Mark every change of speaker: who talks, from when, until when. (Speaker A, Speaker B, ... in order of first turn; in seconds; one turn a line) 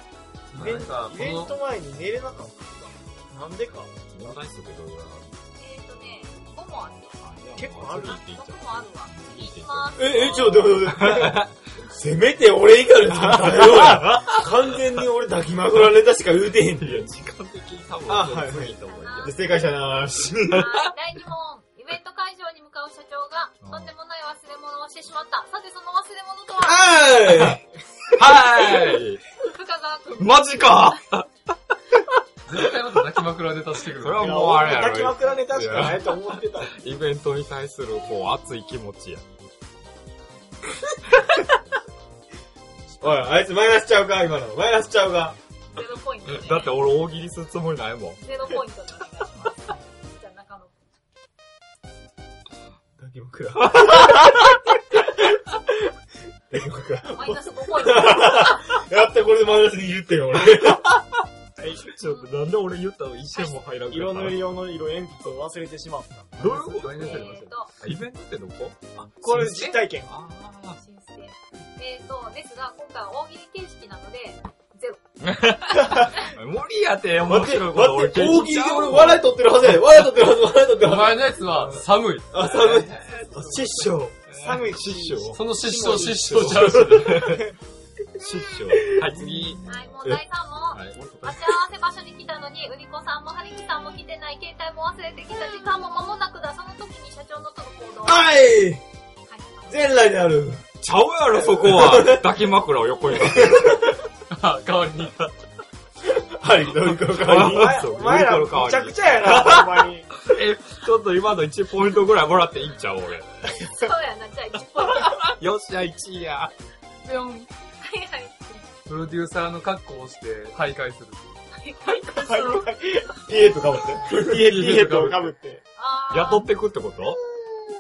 Speaker A: 0.5-1.5
Speaker B: 0.6-3.9
Speaker C: 4.1-5.4
Speaker D: 5.6-7.2
Speaker C: 7.2-11.6
Speaker B: 7.6-8.2
Speaker D: 7.8-10.8
Speaker E: 9.9-17.1
Speaker C: 13.1-14.5
Speaker C: 16.8-19.6
Speaker E: 18.1-20.6
Speaker D: 18.9-19.6
Speaker D: 20.5-27.2
Speaker C: 23.6-23.9
Speaker E: 26.6-27.6
Speaker C: 28.1-29.2
Speaker D: 29.4-31.0
Speaker C: 30.2-31.3
Speaker A: 32.5-34.4
Speaker C: 34.0-39.3
Speaker B: 34.2-36.8
Speaker E: 43.0-45.4
Speaker D: 45.7-46.8
Speaker C: 46.2-48.2
Speaker D: 48.2-50.7
Speaker E: 53.0-54.5
Speaker C: 53.6-54.5
Speaker E: 56.5-61.0
Speaker D: 57.1-58.8
Speaker C: 61.6-64.5
Speaker D: 62.0-62.3
Speaker D: 63.4-63.6
Speaker B: 63.9-66.8
Speaker C: 66.4-70.8
Speaker A: 66.5-67.5
Speaker D: 67.0-67.7
Speaker B: 69.2-70.1
Speaker D: 70.8-76.3
Speaker C: 75.2-79.3
Speaker E: 77.2-81.3
Speaker A: 80.8-82.9
Speaker E: 82.3-84.2
Speaker B: 83.3-83.6
Speaker C: 84.3-87.5
Speaker B: 84.3-87.5
Speaker A: 85.3-87.4
Speaker C: 88.2-90.0
Speaker B: 88.9-89.1
Speaker D: 89.7-98.3
Speaker C: 90.7-91.4
Speaker E: 98.0-98.8
Speaker D: 99.3-99.8
Speaker E: 99.7-100.7
Speaker C: 100.8-103.9
Speaker E: 101.5-102.3
Speaker E: 103.3-104.0
Speaker A: 104.3-105.3
Speaker E: 106.0-107.8
Speaker C: 107.1-113.3
Speaker B: 107.4-110.1
Speaker D: 113.7-115.3
Speaker C: 115.0-116.5
Speaker D: 117.1-118.7
Speaker A: 118.9-121.2
Speaker D: 121.5-122.7
Speaker B: 122.1-123.2
Speaker E: 123.3-125.1
Speaker B: 124.2-125.6
Speaker A: 124.2-125.3
Speaker D: 125.8-126.5
Speaker C: 126.1-127.2